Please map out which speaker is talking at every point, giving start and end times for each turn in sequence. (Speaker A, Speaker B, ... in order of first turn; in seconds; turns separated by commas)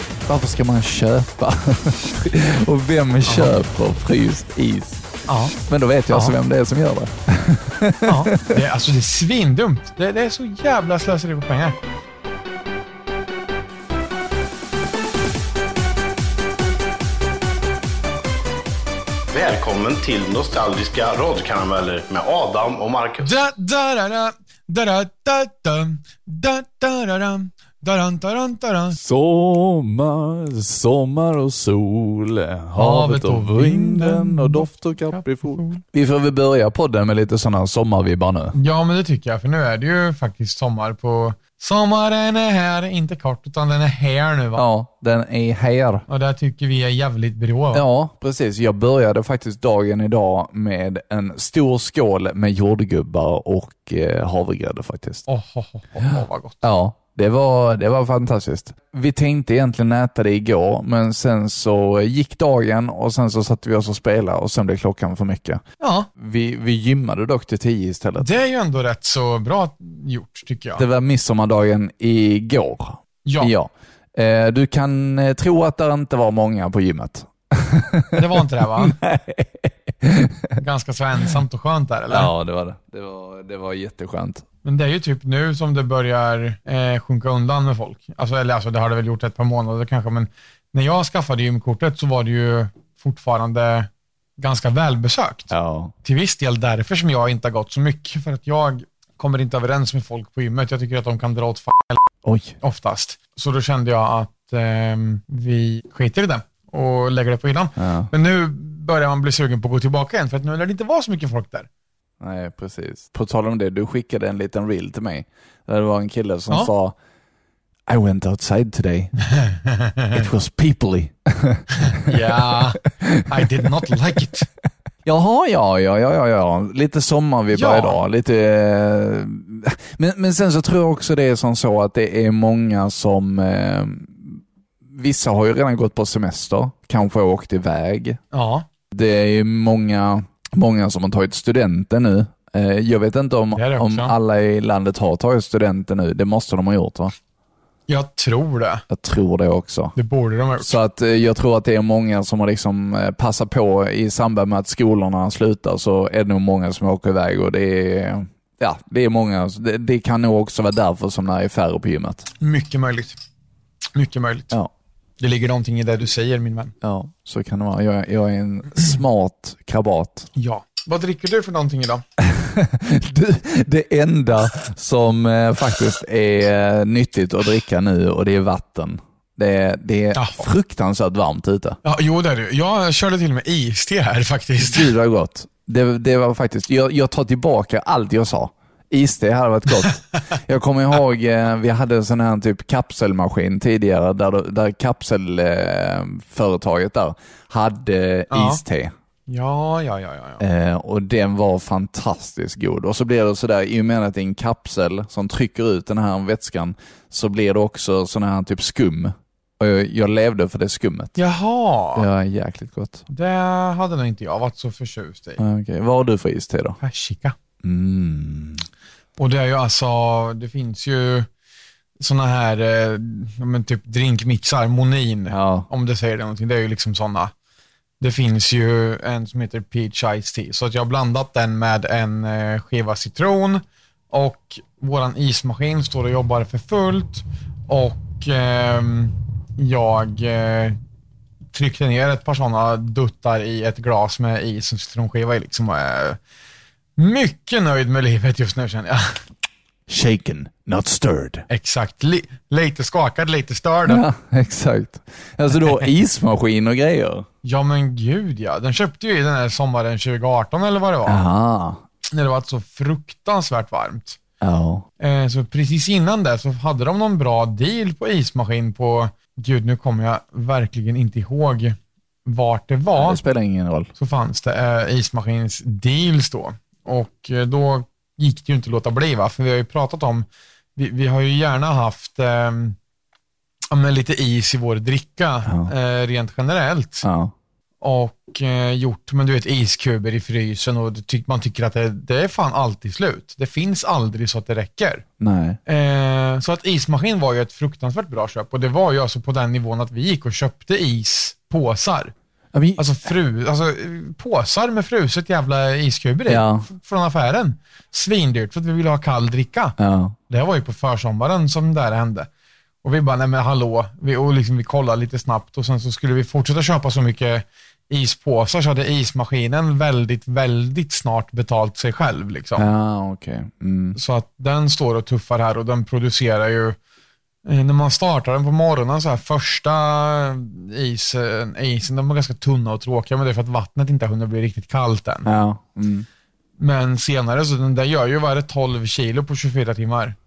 Speaker A: 0.3-5.0, Speaker B: 3.3-3.5, Speaker B: 5.3-5.5, Speaker A: 5.7-8.6, Speaker B: 6.1-6.3, Speaker B: 8.0-11.8, Speaker C: 19.3-23.3, Speaker B: 23.2-29.0, Speaker A: 28.9-38.5, Speaker B: 32.8-35.8, Speaker B: 38.5-44.6, Speaker A: 44.6-46.0, Speaker B: 46.1-47.9, Speaker A: 47.7-55.2, Speaker B: 55.3-56.6, Speaker A: 56.0-65.6, Speaker B: 65.8-66.1, Speaker A: 66.2-68.3, Speaker B: 68.2-70.8, Speaker A: 70.8-80.5, Speaker B: 73.2-73.5, Speaker B: 78.1-79.0, Speaker B: 80.6-82.3, Speaker A: 82.1-84.5, Speaker B: 84.7-95.5, Speaker A: 95.5-95.9, Speaker B: 96.0-102.0, Speaker A: 102.2-102.6, Speaker B: 102.6-111.7, Speaker A: 107.8-108.1, Speaker A: 112.2-117.0, Speaker A: 117.9-119.1, Speaker B: 119.2-120.3, Speaker A: 120.1-123.2, Speaker B: 121.8-124.5, Speaker A: 125.0-138.2, Speaker B: 127.5-128.0, Speaker B: 138.3-138.7, Speaker A: 138.9-147.1, Speaker B: 143.6-144.1, Speaker B: 147.9-148.8, Speaker A: 148.9-150.0, Speaker B: 149.9-150.8, Speaker A: 150.6-162.3, Speaker B: 162.4-163.2, Speaker B: 163.9-164.5, Speaker B: 165.2-166.7, Speaker A: 166.8-170.3, Speaker B: 170.4-172.0, Speaker A: 172.2-181.8, Speaker B: 180.1-180.5, Speaker B: 181.8-184.9, Speaker A: 184.6-198.9, Speaker B: 198.3-198.6, Speaker B: 199.3-200.4, Speaker A: 200.4-211.2, Speaker B: 211.2-212.1, Speaker A: 211.9-213.0, Speaker B: 213.1-215.4, Speaker A: 215.4-216.8, Speaker B: 216.8-217.3, Speaker A: 217.6-218.7, Speaker B: 219.2-221.3, Speaker B: 222.0-227.3, Speaker A: 225.3-225.7, Speaker B: 228.0-240.8, Speaker B: 241.5-246.2, Speaker B: 247.0-249.2, Speaker A: 249.9-251.5, Speaker B: 251.5-254.1, Speaker A: 253.9-257.3, Speaker B: 257.4-261.2, Speaker A: 261.1-261.8, Speaker B: 262.1-264.2, Speaker A: 264.4-264.9, Speaker B: 265.0-273.2, Speaker A: 272.9-273.9, Speaker B: 274.0-282.8, Speaker B: 283.7-287.1, Speaker A: 285.5-285.7, Speaker A: 287.0-287.3, Speaker B: 287.8-295.1, Speaker A: 295.2-295.6, Speaker B: 295.7-302.1, Speaker A: 302.5-303.1, Speaker B: 302.8-309.8, Speaker A: 306.3-306.7, Speaker A: 309.8-310.2, Speaker B: 310.3-312.3, Speaker B: 312.8-322.7, Speaker A: 322.6-324.0, Speaker B: 323.9-326.8, Speaker B: 327.4-335.3, Speaker A: 335.2-336.1, Speaker B: 336.6-340.2